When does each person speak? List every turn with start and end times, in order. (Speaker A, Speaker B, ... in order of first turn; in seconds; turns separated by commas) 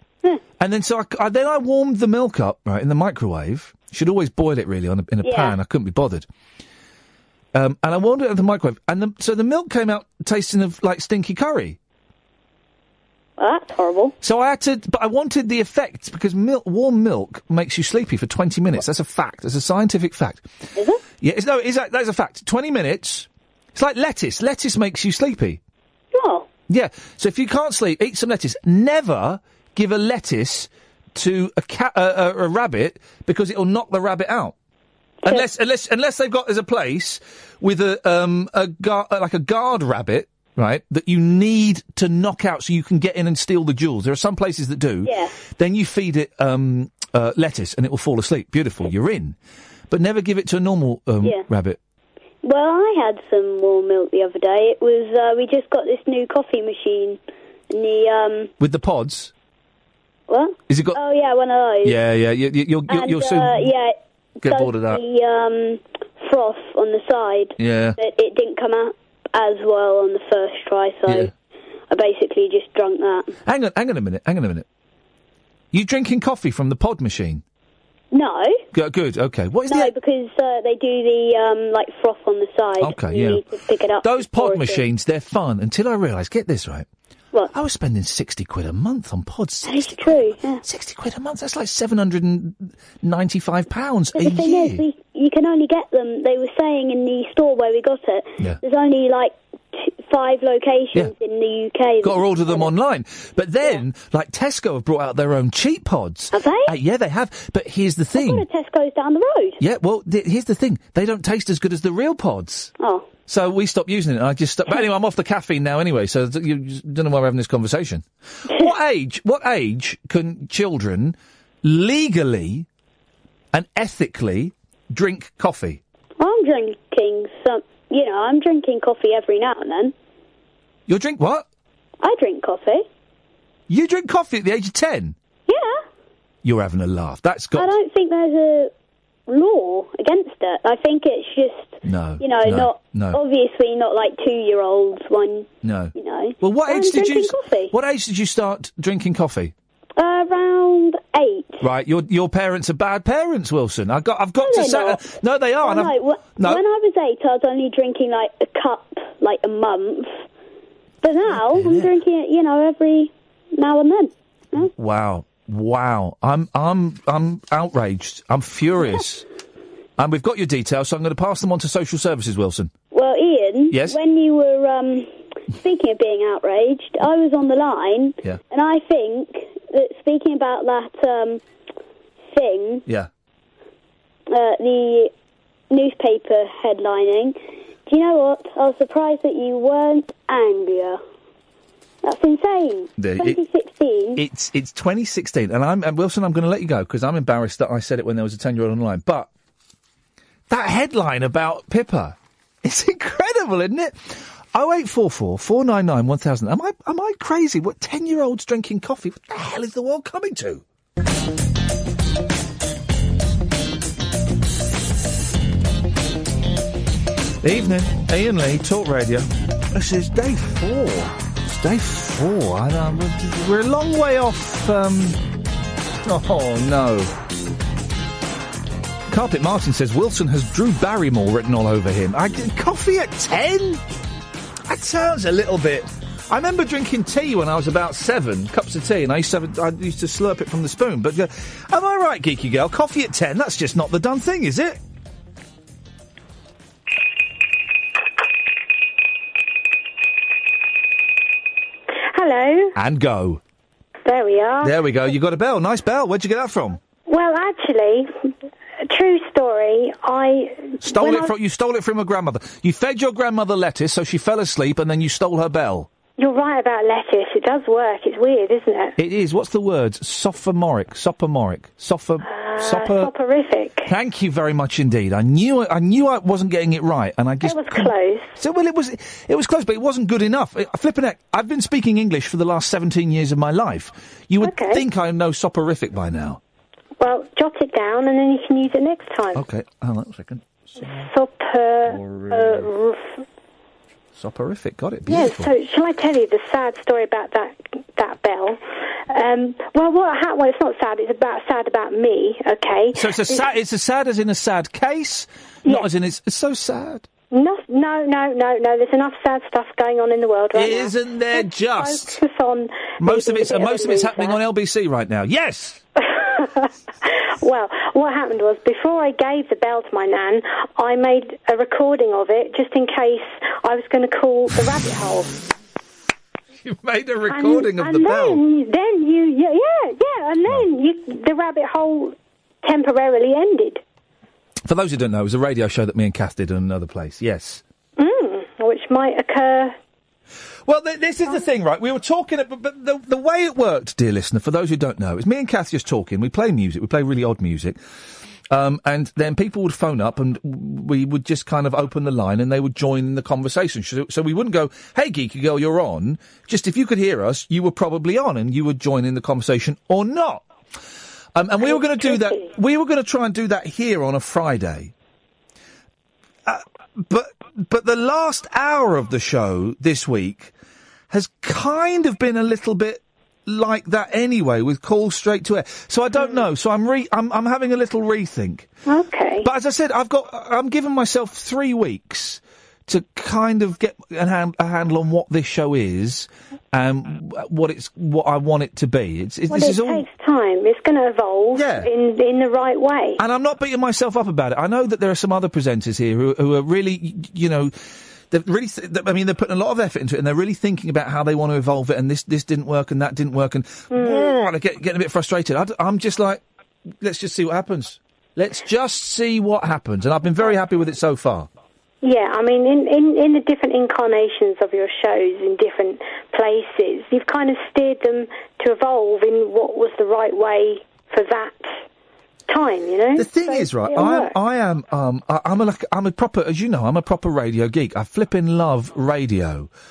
Speaker A: 0.6-6.3, Speaker B: 5.2-5.6, Speaker A: 7.5-11.8, Speaker B: 13.4-14.1, Speaker A: 14.2-20.4, Speaker B: 20.8-21.0, Speaker A: 21.2-25.6, Speaker B: 26.1-26.5, Speaker A: 26.7-34.5, Speaker A: 35.2-49.4, Speaker B: 45.0-45.3, Speaker A: 49.9-51.8, Speaker B: 52.4-58.5, Speaker A: 58.6-59.3, Speaker B: 60.3-62.0, Speaker A: 60.7-61.0, Speaker A: 61.8-63.7, Speaker B: 62.9-71.3, Speaker A: 64.4-65.0, Speaker A: 67.6-68.0, Speaker A: 71.1-71.3, Speaker B: 71.9-73.3, Speaker A: 73.5-74.7, Speaker A: 75.7-77.4, Speaker B: 78.1-78.6, Speaker A: 78.7-79.9, Speaker B: 79.7-84.8, Speaker A: 82.8-83.4, Speaker A: 84.0-86.9, Speaker A: 87.5-94.8, Speaker B: 89.6-90.6, Speaker B: 94.1-102.7, Speaker A: 102.0-108.5, Speaker B: 106.3-106.7, Speaker B: 108.2-109.6, Speaker A: 109.6-112.7, Speaker B: 112.8-113.1, Speaker A: 113.3-122.7, Speaker A: 123.5-125.8, Speaker B: 126.2-129.9, Speaker A: 130.9-131.5, Speaker B: 132.0-132.8, Speaker A: 133.7-135.2, Speaker B: 135.5-135.8, Speaker A: 136.4-137.7, Speaker B: 137.6-138.7, Speaker B: 139.3-147.7, Speaker A: 141.8-143.2, Speaker A: 145.6-149.5, Speaker B: 150.0-151.6, Speaker A: 151.6-156.6, Speaker B: 154.4-155.0, Speaker B: 155.6-160.2, Speaker B: 161.0-164.7, Speaker A: 161.3-161.9, Speaker A: 164.6-169.3, Speaker A: 170.0-172.7, Speaker B: 172.9-181.4, Speaker A: 173.7-174.0, Speaker B: 182.3-182.8, Speaker B: 184.3-185.1, Speaker B: 185.7-191.0, Speaker B: 192.0-194.2, Speaker A: 193.0-193.4, Speaker A: 194.2-199.3, Speaker A: 200.5-210.6, Speaker A: 217.4-225.2, Speaker A: 226.0-227.1, Speaker A: 229.1-233.8, Speaker A: 234.7-244.8, Speaker C: 252.1-252.8, Speaker A: 252.8-253.4, Speaker C: 254.1-254.8, Speaker A: 254.6-256.8, Speaker C: 257.1-258.1, Speaker C: 258.9-261.3, Speaker A: 260.8-265.9, Speaker C: 266.2-269.0, Speaker A: 269.0-273.1, Speaker C: 272.2-273.9, Speaker A: 273.9-286.4, Speaker C: 277.4-278.4, Speaker C: 284.4-284.8, Speaker C: 287.0-289.4, Speaker A: 289.4-291.1, Speaker C: 290.8-293.2, Speaker A: 291.9-292.7, Speaker A: 294.2-295.5, Speaker C: 295.1-303.5, Speaker A: 302.9-307.1, Speaker C: 307.3-314.4, Speaker A: 310.5-312.2, Speaker A: 313.0-315.8, Speaker C: 316.0-325.3, Speaker A: 326.6-328.4, Speaker C: 327.3-333.8, Speaker A: 334.6-337.6, Speaker C: 338.0-339.8, Speaker A: 340.7-347.8, Speaker A: 348.5-360.4, Speaker A: 361.4-364.9, Speaker C: 361.6-362.5, Speaker A: 366.4-370.5, Speaker A: 371.1-378.7, Speaker C: 376.2-376.5, Speaker C: 378.9-379.5, Speaker A: 379.4-390.1, Speaker C: 389.5-393.2, Speaker A: 391.5-391.9, Speaker A: 393.2-406.4, Speaker C: 403.9-404.3, Speaker A: 407.0-411.5, Speaker C: 412.0-421.7, Speaker C: 422.5-424.3, Speaker A: 423.2-429.7